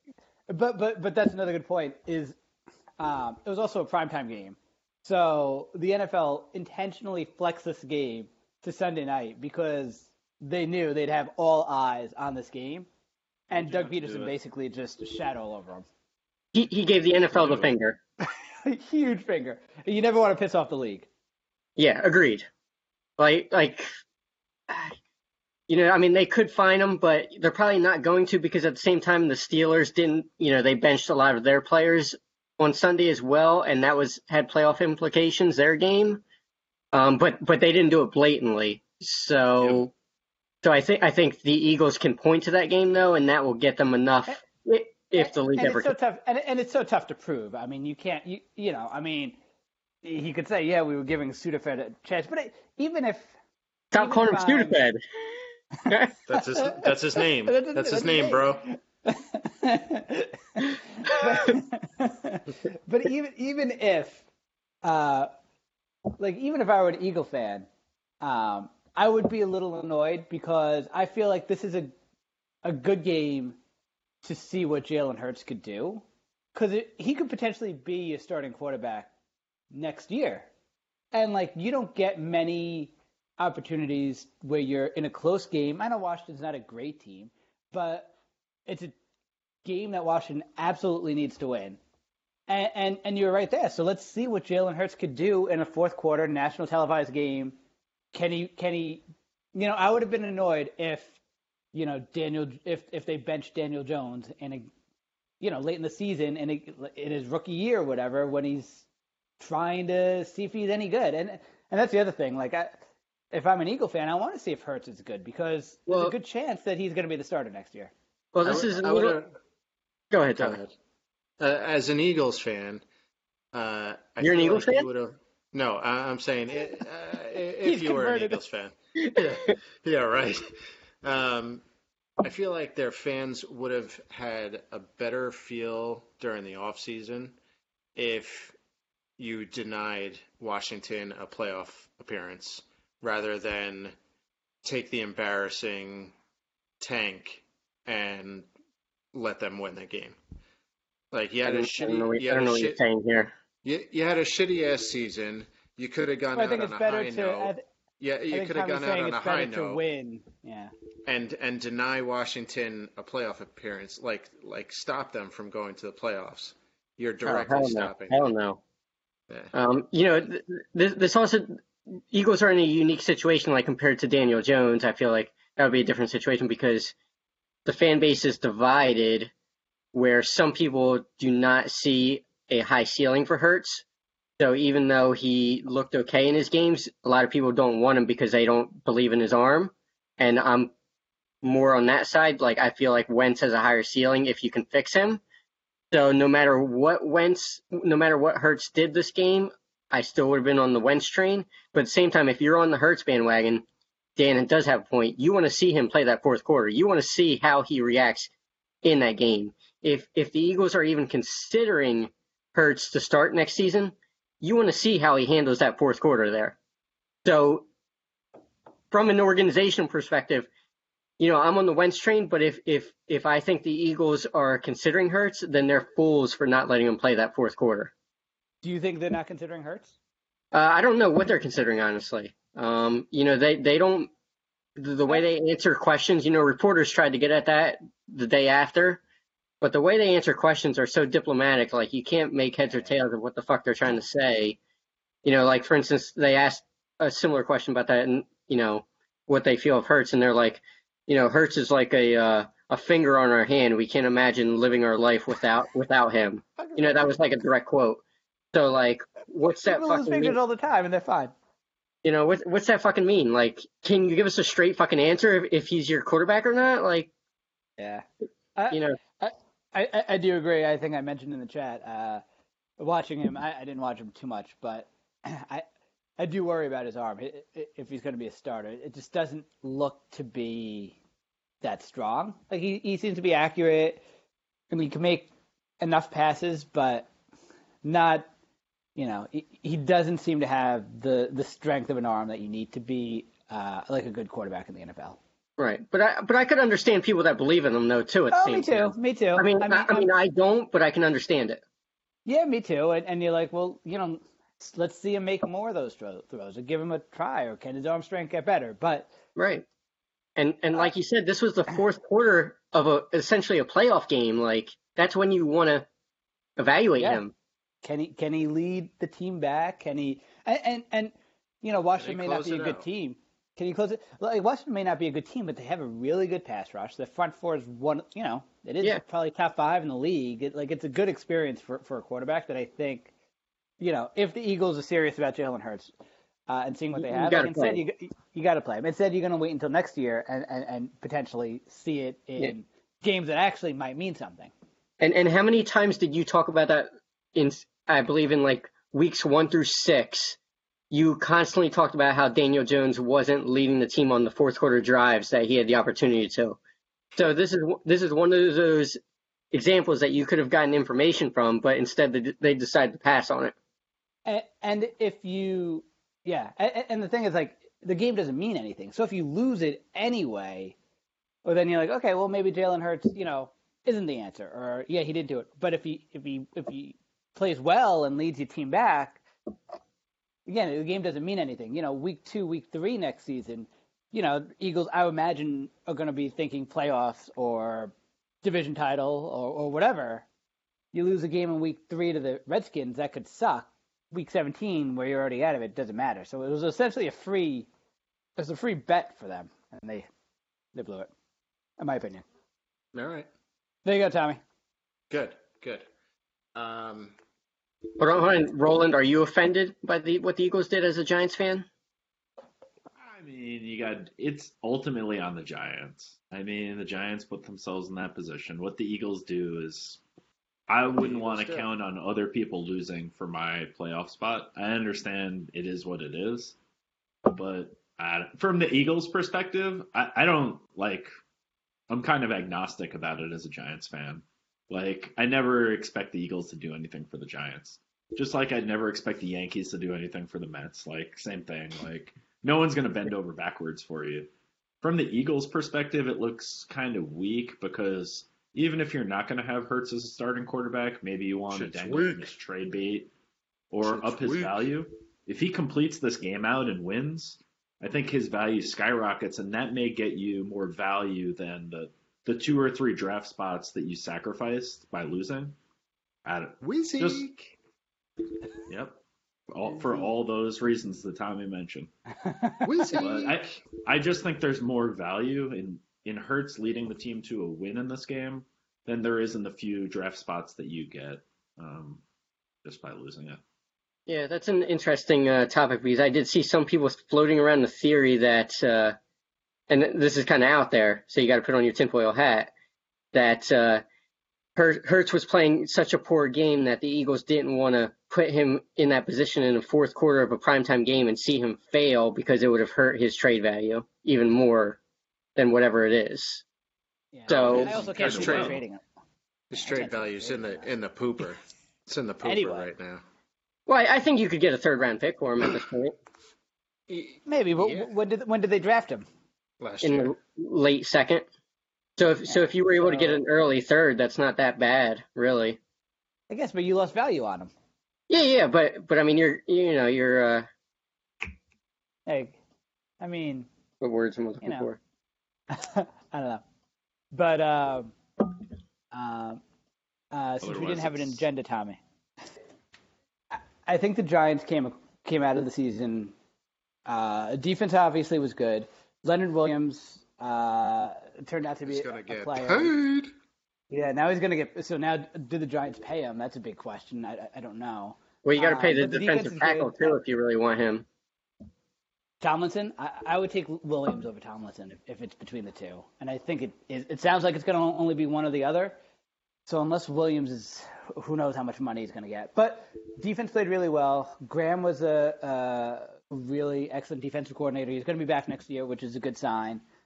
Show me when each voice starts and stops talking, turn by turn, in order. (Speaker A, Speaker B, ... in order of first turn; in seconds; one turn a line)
Speaker A: 0.5-2.4
Speaker A: 3.0-12.9
Speaker A: 13.5-15.9
Speaker B: 13.5-14.3
Speaker C: 16.5-18.0
Speaker B: 17.3-17.7
Speaker A: 18.6-21.1
Speaker C: 21.8-22.5
Speaker C: 23.2-23.9
Speaker C: 25.7-36.2
Speaker C: 36.9-39.9
Speaker B: 39.6-39.8
Speaker C: 40.6-45.9
Speaker A: 45.2-49.4
Speaker A: 50.0-53.3
Speaker C: 53.9-55.0
Speaker A: 54.0-54.8
Speaker C: 55.9-56.1
Speaker D: 56.3-58.7
Speaker A: 56.3-56.9
Speaker A: 57.4-64.2
Speaker A: 64.8-65.3
Speaker A: 66.2-67.7
Speaker A: 68.2-71.9
Speaker A: 72.6-73.6
Speaker A: 74.2-79.1
Speaker A: 79.7-80.5
Speaker A: 81.1-88.1
Speaker A: 88.7-89.0
Speaker A: 89.7-91.8
Speaker A: 92.5-97.6
Speaker A: 98.1-99.0
Speaker A: 99.5-101.2
Speaker A: 101.7-104.7
Speaker A: 105.4-108.8
Speaker A: 109.4-112.8
Speaker A: 113.3-117.9
Speaker C: 115.9-116.1
Speaker C: 118.3-119.2
Speaker D: 118.5-119.3
Speaker C: 120.1-120.6
Speaker D: 120.3-120.7
Speaker D: 121.4-122.8
Speaker D: 123.5-130.4
Speaker C: 124.2-124.9
Speaker A: 127.6-128.4
Speaker C: 129.0-129.5
Speaker D: 131.0-131.6
Speaker D: 132.2-137.4
Speaker D: 138.0-138.6
Speaker D: 139.2-143.9
Speaker D: 144.6-146.1
Speaker D: 146.8-148.5
Speaker D: 149.1-150.2
Speaker D: 151.1-152.8
Speaker C: 151.4-153.3
Speaker D: 153.6-159.8
Speaker A: 156.3-157.6
Speaker A: 158.3-160.7
Speaker D: 161.1-168.3
Speaker C: 167.3-168.6
Speaker C: 169.5-176.9
Speaker C: 177.7-179.3
Speaker C: 179.9-183.8
Speaker C: 184.4-190.7
Speaker C: 191.4-195.2
Speaker C: 195.9-203.7
Speaker C: 204.2-208.3
Speaker C: 208.8-216.6
Speaker C: 217.2-217.7
Speaker C: 218.9-220.5
Speaker C: 221.2-227.9
Speaker A: 228.6-229.9
Speaker C: 230.5-234.1
Speaker C: 234.8-239.0
Speaker C: 239.6-244.6
Speaker C: 245.2-258.0
Speaker A: 256.6-257.1
Speaker C: 258.5-260.4
Speaker A: 259.6-261.3
Speaker C: 262.0-267.1
Speaker A: 267.8-268.1
Speaker A: 268.6-272.2
Speaker C: 268.7-269.0
Speaker A: 272.8-275.7
Speaker A: 276.2-281.0
Speaker A: 281.6-284.0
Speaker A: 284.7-285.3
Speaker A: 285.8-287.1
Speaker A: 287.8-288.3
Speaker A: 289.0-295.2
Speaker C: 295.6-301.6
Speaker A: 298.3-300.1
Speaker A: 302.3-309.1
Speaker C: 309.4-309.6
Speaker C: 310.4-315.9
Speaker C: 316.6-317.3
Speaker A: 317.8-333.1
Speaker D: 322.0-322.9
Speaker A: 333.8-335.9
Speaker A: 336.5-344.5
Speaker C: 337.0-337.8
Speaker C: 345.0-350.4
Speaker C: 350.9-356.6
Speaker C: 357.2-359.0
Speaker C: 359.5-363.6
Speaker A: 364.3-370.8
Speaker A: 371.4-379.2
Speaker A: 380.5-390.3
Speaker A: 390.9-397.7
Speaker A: 398.4-400.1
Speaker A: 400.7-401.1
Speaker A: 401.8-402.2
Speaker D: 402.9-403.3
Speaker A: 403.9-404.4
Speaker D: 405.1-405.9
Speaker D: 406.6-407.1
Speaker C: 408.0-411.7
Speaker B: 413.0-420.0
Speaker B: 420.7-426.6
Speaker D: 420.9-421.7
Speaker B: 427.3-431.1
Speaker B: 431.9-444.3
Speaker B: 444.8-453.1
Speaker D: 451.8-452.2
Speaker B: 453.7-465.6
Speaker D: 453.9-454.5
Speaker B: 466.2-467.2
Speaker D: 466.6-467.5
Speaker B: 468.7-471.9
Speaker A: 472.2-473.0
Speaker D: 472.6-473.4
Speaker B: 472.9-482.0
Speaker B: 482.6-483.4
Speaker C: 484.1-489.0
Speaker C: 489.7-492.5
Speaker C: 493.1-493.8
Speaker C: 494.6-504.8
Speaker C: 505.4-506.4
Speaker A: 507.1-508.8
Speaker C: 507.3-507.8
Speaker D: 507.3-508.6
Speaker B: 507.4-508.6
Speaker D: 509.5-513.0
Speaker A: 509.5-510.7
Speaker A: 512.2-512.7
Speaker C: 513.7-516.0
Speaker D: 516.9-517.9
Speaker A: 517.3-519.1
Speaker D: 519.6-520.1
Speaker C: 519.8-521.3
Speaker C: 522.0-525.6
Speaker A: 522.3-523.2
Speaker A: 526.3-527.5
Speaker C: 528.1-530.5
Speaker A: 532.1-532.4
Speaker A: 533.0-533.5
Speaker C: 533.8-534.8
Speaker A: 534.4-534.7
Speaker A: 535.5-536.4
Speaker A: 537.1-538.0
Speaker A: 538.9-539.4
Speaker A: 540.1-541.8
Speaker B: 540.4-541.2
Speaker A: 543.3-546.1
Speaker A: 546.9-552.7
Speaker D: 551.7-553.1
Speaker A: 553.7-560.0
Speaker C: 558.2-560.9
Speaker A: 562.2-568.8
Speaker A: 569.5-579.6